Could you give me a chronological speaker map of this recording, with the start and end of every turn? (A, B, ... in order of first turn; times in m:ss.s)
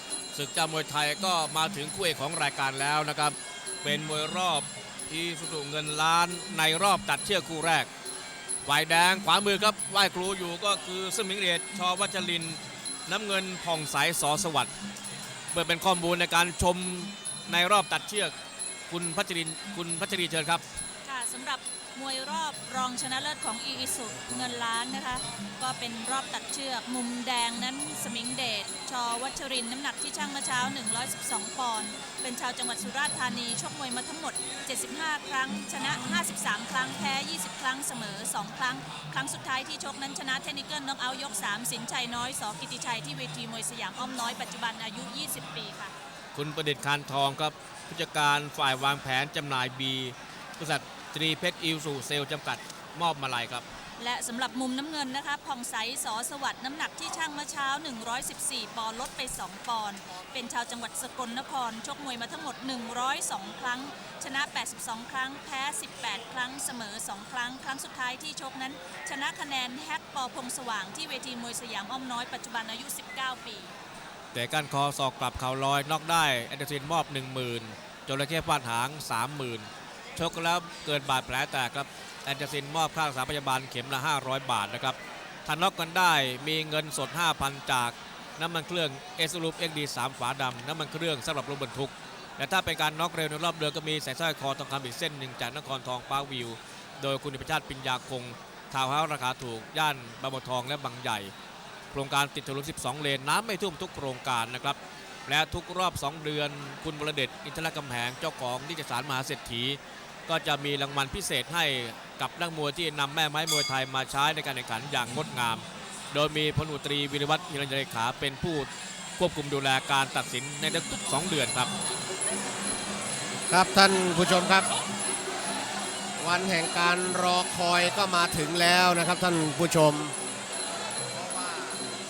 0:00.3-0:07.9 A
0:08.6-0:14.7 A
0:15.5-0:18.3 A
0:18.9-0:20.6 A
0:21.0-0:45.9 B
0:46.3-0:53.7 A
0:54.0-1:13.8 B
1:14.3-1:41.3 A
1:41.9-2:01.7 A
2:03.5-2:04.7 C
2:06.2-2:10.2 C
2:11.1-2:11.8 C